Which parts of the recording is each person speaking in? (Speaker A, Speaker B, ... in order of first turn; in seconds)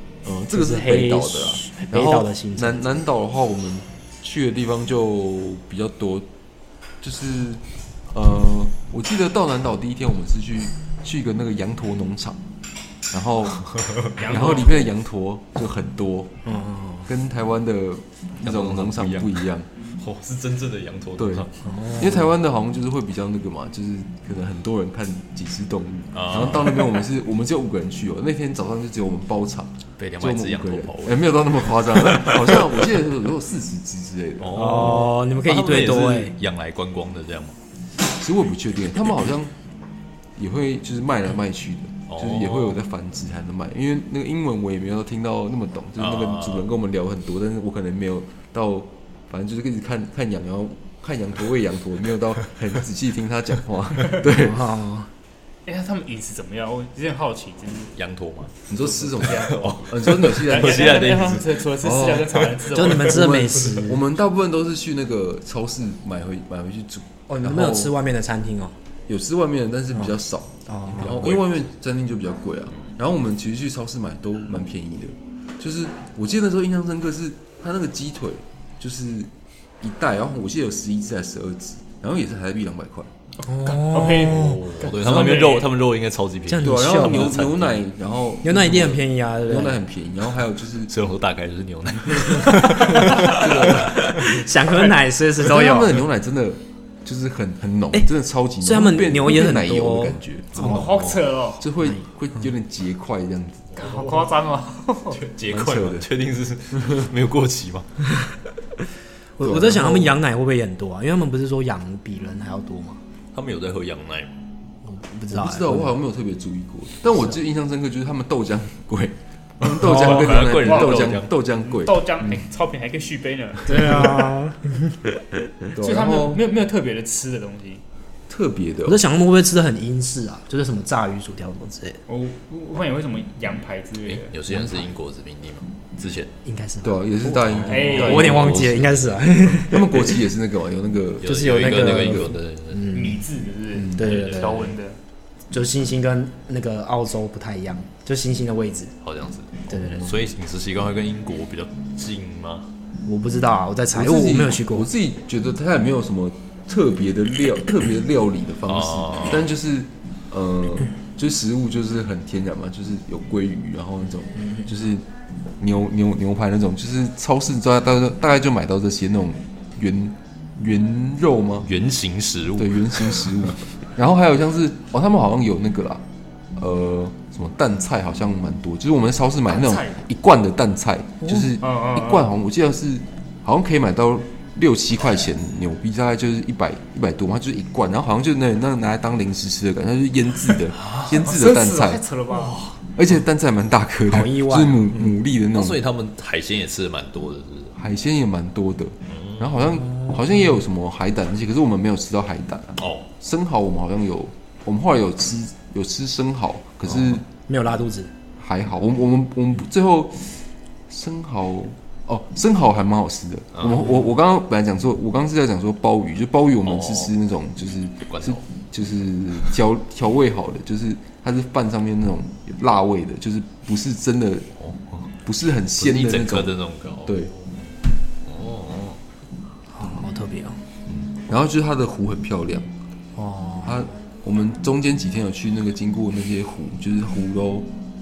Speaker A: 0.2-6.3, 7.0-12.4, 13.1-13.7, 14.2-16.3, 17.1-19.7, 21.2-35.0, 38.0-39.5, 40.4-54.8, 58.7-61.0, 61.8-67.9, 69.1-83.1, 86.6-90.9, 92.9-94.1, 95.4-100.9, 101.5-103.9, 105.5-106.1, 109.4-110.2, 115.3-122.4, 125.7-126.5, 128.3-129.0, 136.8-138.9, 139.4-142.3, 143.7-144.1, 153.9-165.0, 165.6-171.7, 172.6-176.0, 176.6-192.0, 192.9-195.8, 197.8-207.3, 208.4-224.5, 225.2-226.5, 227.1-227.3, 230.9-232.7, 233.6-237.7
Speaker B: 0.5-2.9, 16.4-17.1, 21.6-22.3, 34.5-36.3, 54.2-55.1, 62.7-64.1, 67.3-68.7, 70.7-71.2, 83.4-84.6, 86.5-87.3, 88.4-89.8, 92.4-96.0, 98.6-100.2, 109.3-113.0, 114.8-115.9, 119.8-120.1, 123.6-125.0, 128.8-132.0, 136.4-140.1, 141.2-143.2, 143.9-144.7, 145.5-148.9, 149.7-150.1, 153.0-154.9, 194.1-195.1, 207.5-208.1, 229.7-230.6, 233.2-233.7
Speaker C: 14.2-14.8, 55.6-57.9, 59.0-59.8, 60.4-63.2, 83.4-85.7, 100.5-101.6, 103.8-105.2, 120.1-124.0, 125.8-127.8, 132.1-134.4, 137.7-138.4, 142.9-145.0, 179.5-179.9, 181.6-182.3, 191.0-192.6
Speaker D: 18.4-21.5, 26.1-26.9, 30.0-31.3, 32.0-32.8, 34.4-37.6, 42.1-42.8, 46.0-46.7, 58.0-58.5, 59.2-61.6, 71.0-71.5, 83.9-87.8, 90.9-94.2, 100.5-101.3, 105.1-107.8, 113.3-114.3, 119.6-121.3, 134.0-136.3, 137.5-139.2, 141.2-143.0, 144.0-144.7, 149.0-152.7, 158.7-159.5, 171.6-173.4, 192.3-192.8, 195.5-197.7, 199.1-199.6, 202.8-203.1, 206.9-207.2, 213.6-213.8, 216.6-217.1, 218.1-218.4, 224.6-225.0, 225.8-227.3, 228.2-229.0